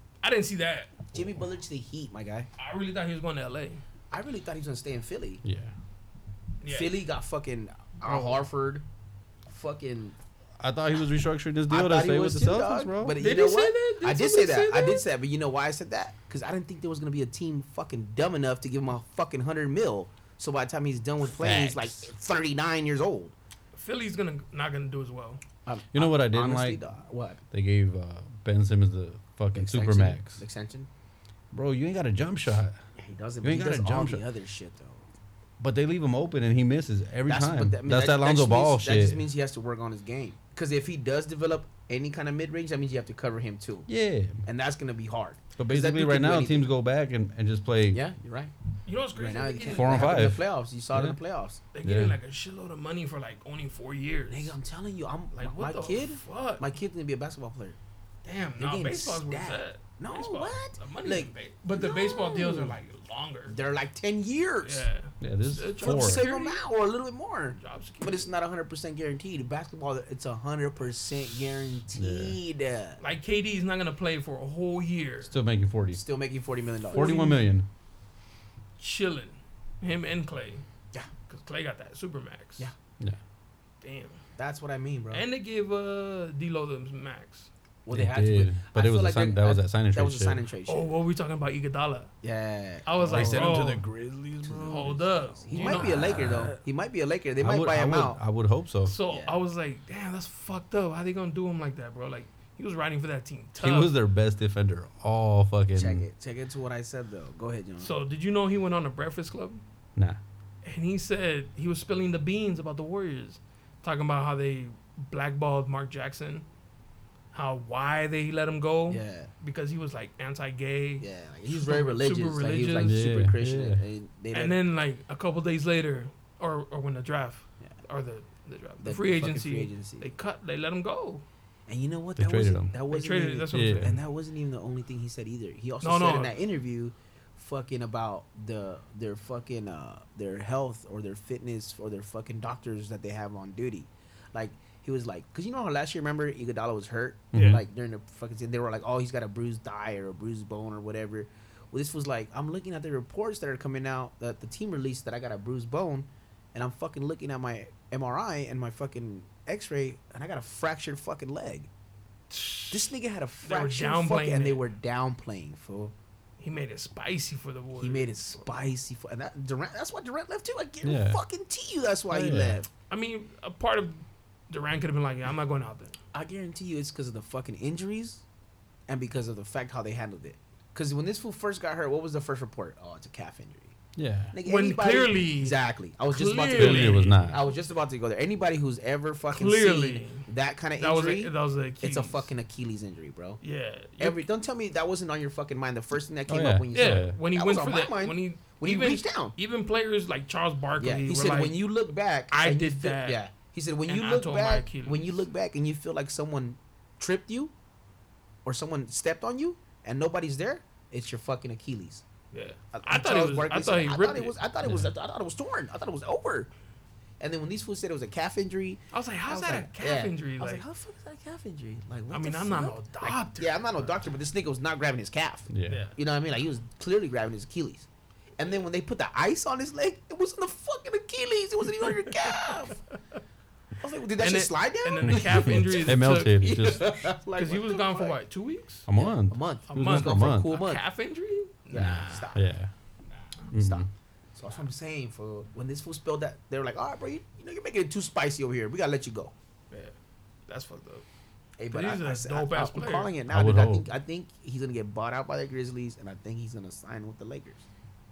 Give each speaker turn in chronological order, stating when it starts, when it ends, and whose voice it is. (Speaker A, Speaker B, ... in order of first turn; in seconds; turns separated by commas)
Speaker A: 0.2-1.0, Speaker B: 1.1-2.5, Speaker A: 2.6-3.8, Speaker B: 4.1-5.4, Speaker C: 5.4-5.7, Speaker A: 6.6-7.0, Speaker B: 6.7-8.8, Speaker C: 8.1-8.4, Speaker B: 9.5-10.2, Speaker C: 10.6-13.2, Speaker B: 11.7-23.3, Speaker A: 13.2-15.0, Speaker C: 21.2-22.1, Speaker A: 23.7-25.4, Speaker B: 25.6-27.4, Speaker C: 25.9-26.8, Speaker C: 27.5-30.4, Speaker B: 29.5-30.9, Speaker C: 31.5-32.8, Speaker B: 33.0-35.1, Speaker C: 33.4-34.2, Speaker C: 35.6-39.2, Speaker B: 37.3-43.9, Speaker C: 43.9-44.4, Speaker B: 44.4-46.7, Speaker C: 45.6-48.0, Speaker B: 47.9-48.5, Speaker A: 48.9-50.2, Speaker B: 49.1-51.6, Speaker C: 49.7-51.2, Speaker A: 51.7-54.6, Speaker C: 51.8-52.2, Speaker B: 54.3-57.8, Speaker A: 55.4-56.7, Speaker A: 58.2-63.6, Speaker B: 58.6-62.7, Speaker B: 63.5-64.8, Speaker A: 64.6-66.6, Speaker C: 65.2-66.2, Speaker B: 65.8-73.0, Speaker A: 67.6-68.3, Speaker C: 71.9-72.4, Speaker A: 73.0-75.3, Speaker C: 75.3-76.0, Speaker B: 75.9-77.2, Speaker A: 76.9-77.5, Speaker C: 76.9-77.7, Speaker A: 78.8-80.6, Speaker A: 81.3-82.7, Speaker A: 83.8-84.2, Speaker B: 84.3-85.2, Speaker A: 85.1-87.5, Speaker B: 87.8-90.9, Speaker C: 87.9-90.4, Speaker A: 90.7-92.1, Speaker B: 92.2-98.2, Speaker A: 92.8-93.9, Speaker C: 93.1-93.9, Speaker A: 94.4-96.6, Speaker C: 94.5-94.9, Speaker C: 95.5-96.5, Speaker C: 97.4-98.9, Speaker A: 98.8-103.9, Speaker B: 99.1-99.4, Speaker C: 103.6-106.0, Speaker B: 105.7-107.9, Speaker A: 107.8-109.6, Speaker A: 110.6-116.5, Speaker A: 117.3-123.0, Speaker B: 118.9-119.3, Speaker B: 121.0-124.6, Speaker C: 122.8-123.8, Speaker A: 124.3-131.2, Speaker B: 128.8-130.1, Speaker B: 131.7-161.7, Speaker C: 132.2-132.7, Speaker A: 132.9-133.9, Speaker C: 133.5-134.0, Speaker A: 135.8-136.3, Speaker C: 147.3-147.6, Speaker A: 147.3-147.6, Speaker A: 162.3-164.7, Speaker B: 162.7-165.9, Speaker A: 166.4-168.7, Speaker B: 167.8-172.7, Speaker C: 170.8-171.2, Speaker C: 172.1-172.6, Speaker A: 172.9-176.0, Speaker B: 176.1-178.2, Speaker B: 178.9-183.8, Speaker C: 183.9-184.3, Speaker B: 184.3-193.4, Speaker A: 184.4-185.6, Speaker A: 186.1-187.3, Speaker C: 186.5-187.4, Speaker A: 189.3-192.3, Speaker A: 193.4-194.2, Speaker B: 194.0-199.3, Speaker C: 196.3-197.2, Speaker A: 196.7-201.6, Speaker B: 200.8-207.5, Speaker A: 202.3-203.2, Speaker A: 203.9-205.2, Speaker B: 208.4-212.0, Speaker A: 212.3-214.3, Speaker B: 212.7-216.5, Speaker C: 214.6-214.9, Speaker B: 217.2-227.9, Speaker A: 218.9-220.6, Speaker A: 222.1-223.9, Speaker C: 225.5-225.8, Speaker A: 225.7-225.9, Speaker B: 228.4-232.8, Speaker A: 232.2-232.6, Speaker B: 233.8-238.2, Speaker A: 234.2-236.8, Speaker C: 235.1-237.0, Speaker A: 237.3-238.9, Speaker C: 238.9-240.6, Speaker B: 238.9-240.8, Speaker A: 239.7-242.3, Speaker B: 241.7-242.4, Speaker C: 241.7-242.7, Speaker C: 243.5-243.9, Speaker B: 243.5-249.3, Speaker A: 250.5-251.0, Speaker B: 251.6-257.6, Speaker A: 251.7-253.1, Speaker C: 253.3-253.9